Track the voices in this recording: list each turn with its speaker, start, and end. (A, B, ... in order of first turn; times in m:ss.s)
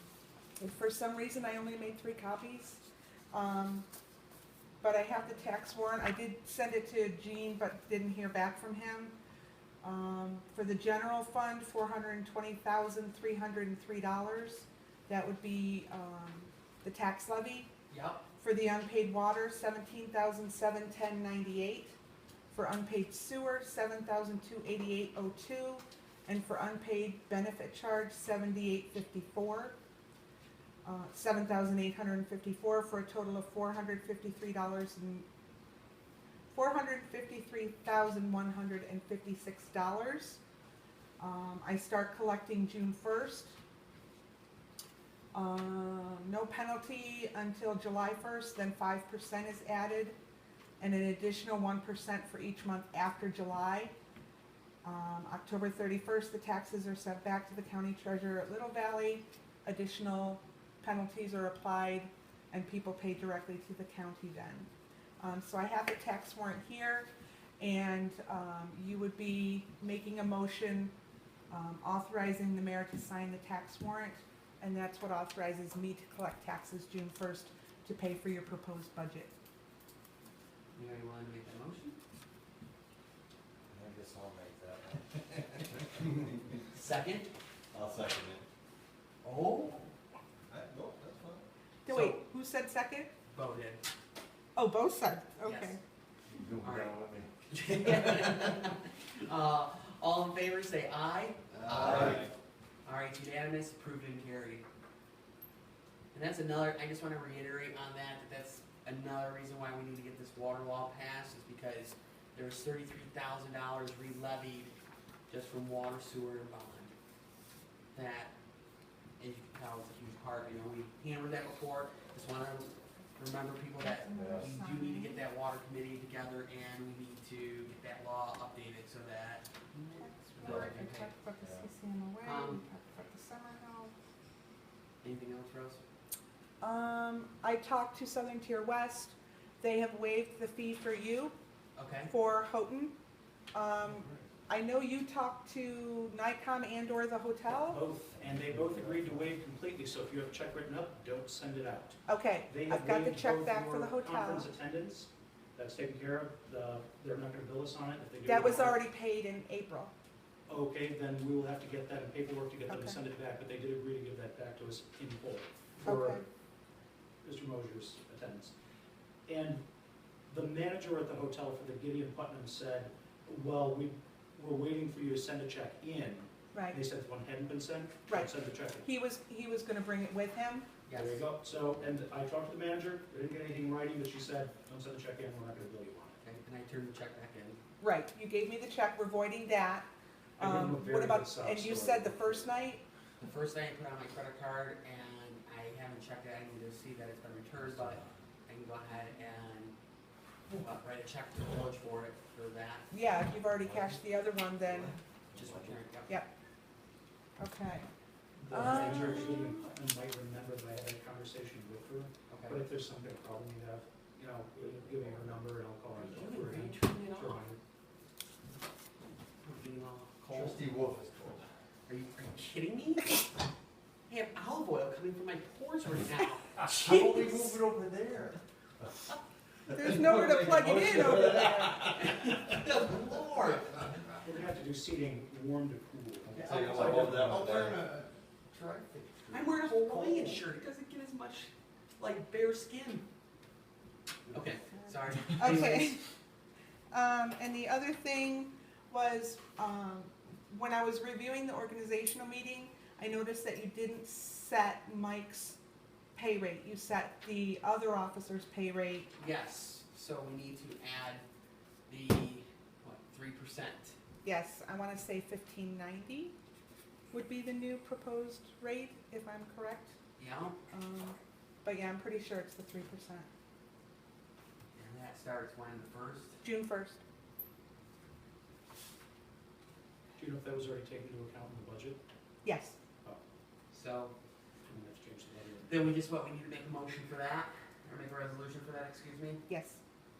0:00.6-0:03.8 A
0:04.8-0:09.1 A
0:09.8-0:17.7 A
0:17.9-0:18.2 B
0:18.4-0:22.0 A
0:22.5-0:29.8 A
0:30.8-0:35.2 A
0:36.5-0:40.4 A
0:41.2-0:43.6 A
0:45.3-0:50.2 A
0:50.8-0:53.9 A
0:54.8-1:07.1 A
1:07.6-1:10.9 A
1:11.5-1:19.3 A
1:20.7-1:22.0 B
1:23.7-1:26.4 C
1:26.7-1:27.3 B
1:27.7-1:28.4 C
1:29.2-1:29.9 B
1:30.5-1:31.4 C
1:31.8-1:33.1 A
1:31.9-1:32.2 B
1:33.3-1:33.8 B
1:34.5-1:35.8 A
1:35.4-1:35.8 B
1:36.3-1:38.3 C
1:36.6-1:37.0 B
1:37.5-1:42.3 B
1:41.5-1:42.3 C
1:42.8-1:44.6 B
1:46.1-1:54.7 B
1:55.3-1:56.9 B
1:57.9-1:58.3 B
1:59.2-2:11.1 B
2:03.8-2:05.2 A
2:04.1-2:04.5 C
2:09.9-2:13.9 A
2:12.2-2:12.6 B
2:15.0-2:15.8 B
2:16.6-2:21.3 A
2:21.8-2:22.1 B
2:22.1-2:22.9 A
2:23.5-2:27.8 A
2:27.7-2:38.8 D
2:32.0-2:34.5 A
2:38.2-2:39.9 A
2:40.5-2:46.2 D
2:42.7-2:43.0 A
2:45.8-2:46.2 A
2:47.2-2:48.5 D
2:49.3-2:49.6 D
2:50.3-2:58.9 D
2:58.1-3:00.7 A
3:00.9-3:01.2 B
3:00.9-3:06.2 D
3:06.2-3:07.6 B
3:07.8-3:09.9 A
3:10.4-3:12.4 D
3:10.4-3:12.8 A
3:13.2-3:19.7 B
3:20.5-3:23.0 B
3:22.9-3:25.0 A
3:25.3-3:25.7 C
3:25.3-3:26.1 B
3:27.4-3:27.8 A
3:28.4-3:37.6 D
3:28.5-3:29.6 A
3:28.6-3:29.4 B
3:32.3-3:32.6 B
3:35.9-3:37.4 B
3:39.4-3:40.6 B
3:40.3-3:41.4 C
3:41.9-3:43.3 B
3:44.1-3:47.6 B
3:46.8-3:48.4 C
3:49.7-3:52.1 A
3:49.7-3:51.9 C
3:51.7-3:54.2 B
3:54.2-3:56.3 D
3:56.3-3:58.1 C
3:56.3-3:57.8 B
3:59.0-3:59.5 C
3:59.3-4:03.0 B
4:04.3-4:06.0 B
4:05.3-4:06.0 A
4:06.9-4:15.6 A
4:16.1-4:19.1 A
4:19.2-4:21.2 B
4:21.9-4:24.0 B
4:24.2-4:26.3 A
4:27.1-4:30.0 A
4:30.2-4:30.6 B
4:30.7-4:33.3 A
4:34.8-4:36.4 B
4:36.4-4:37.0 A
4:40.2-4:42.0 D
4:42.4-4:42.8 A
4:43.7-4:44.1 B
4:44.7-4:45.9 D
4:45.6-4:49.4 B
4:49.5-4:49.8 A